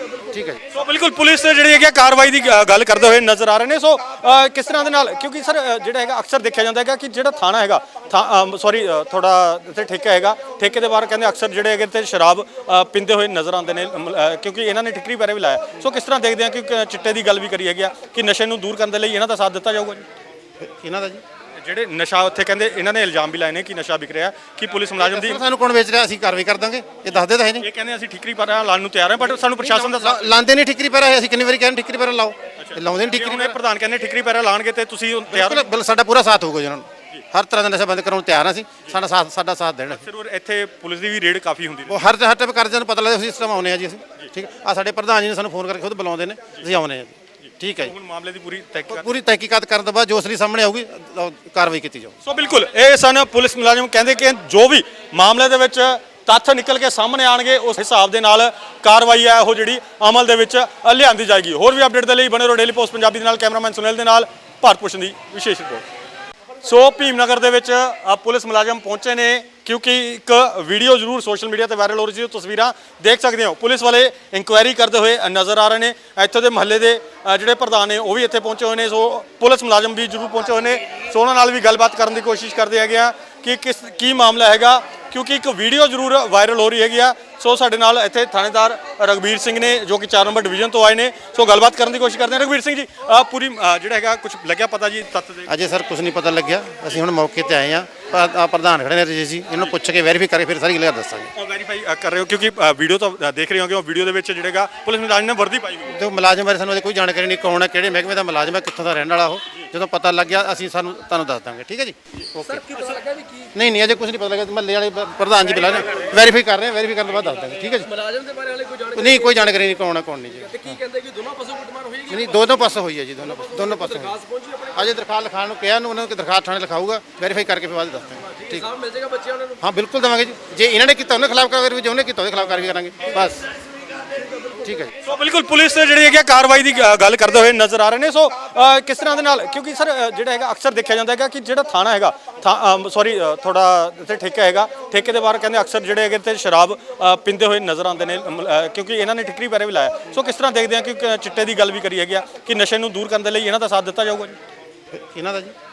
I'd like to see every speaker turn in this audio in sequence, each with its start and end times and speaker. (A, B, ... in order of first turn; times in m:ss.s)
0:00.3-0:00.6 A
0:00.7-0:20.0 B
0:20.6-0:21.2 A
0:21.6-0:25.4 B
0:25.0-0:27.6 A
0:27.6-0:30.4 B
0:29.3-0:33.6 A
0:32.6-0:35.7 B
0:35.3-0:40.0 A
0:39.9-0:42.0 B
0:41.9-0:47.9 A
0:47.5-0:49.0 B
0:48.9-0:52.2 A
0:52.2-1:05.8 B
1:06.6-1:35.5 B
1:35.5-1:41.3 A
1:41.3-1:46.0 B
1:45.9-1:52.0 A
1:52.3-1:53.0 B
1:52.5-1:53.5 C
1:53.5-1:58.0 A
1:57.8-1:59.4 C
1:58.9-2:00.8 A
2:00.5-2:02.4 C
2:02.1-2:04.2 A
2:03.4-2:04.8 C
2:04.7-2:08.7 A
2:08.4-2:09.6 C
2:09.6-2:13.4 A
2:14.6-2:14.9 A
2:15.0-2:34.4 B
2:34.9-2:35.5 A